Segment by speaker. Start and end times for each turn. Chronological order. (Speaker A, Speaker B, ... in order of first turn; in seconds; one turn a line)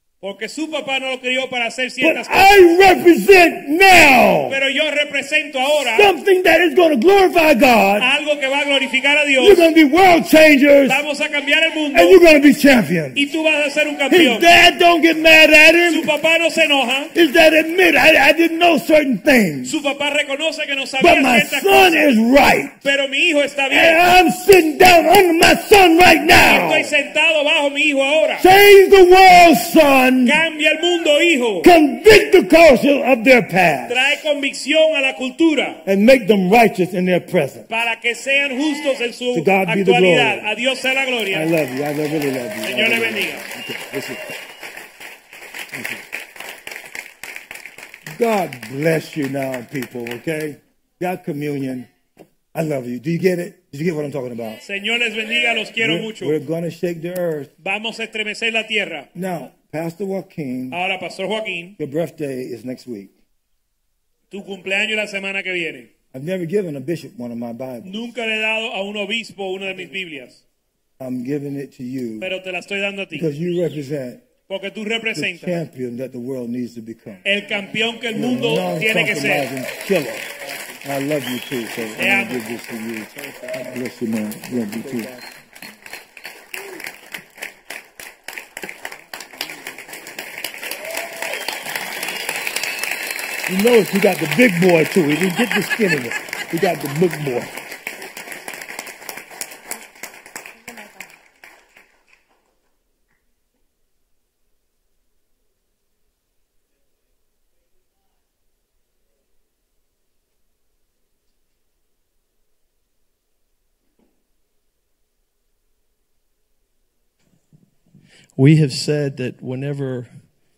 Speaker A: 0.2-2.4
Speaker B: 2.0-4.6
Speaker A: 4.5-6.1
Speaker B: 5.9-8.1
Speaker A: 8.0-9.7
Speaker B: 9.4-11.0
Speaker A: 10.8-12.2
Speaker B: 11.9-13.3
Speaker A: 13.1-14.5
Speaker B: 14.1-16.1
Speaker A: 15.9-17.1
Speaker B: 17.1-19.8
Speaker A: 19.6-22.1
Speaker B: 21.0-22.8
Speaker A: 22.8-24.0
Speaker B: 23.7-26.9
Speaker A: 26.4-28.5
Speaker B: 28.4-30.4
Speaker A: 30.2-31.7
Speaker B: 31.6-34.2
Speaker A: 33.9-35.8
Speaker B: 35.8-37.7
Speaker A: 37.7-41.5
Speaker B: 39.3-40.5
Speaker B: 41.3-44.3
Speaker A: 42.6-43.4
Speaker B: 45.7-46.0
Speaker B: 48.1-51.9
Speaker B: 52.5-54.6
Speaker A: 54.6-56.4
Speaker B: 55.8-57.5
Speaker A: 57.6-59.1
Speaker B: 59.1-60.8
Speaker A: 60.7-61.8
Speaker B: 61.8-63.1
Speaker A: 64.3-65.9
Speaker B: 66.1-68.1
Speaker A: 67.8-70.4
Speaker B: 71.0-72.3
Speaker A: 72.2-73.3
Speaker B: 73.1-74.2
Speaker A: 74.5-75.6
Speaker B: 75.1-77.2
Speaker A: 77.2-79.5
Speaker B: 78.1-80.3
Speaker B: 80.8-85.1
Speaker A: 82.0-82.4
Speaker C: 83.1-83.5
Speaker C: 84.5-85.2
Speaker B: 93.5-97.5
Speaker C: 118.4-120.1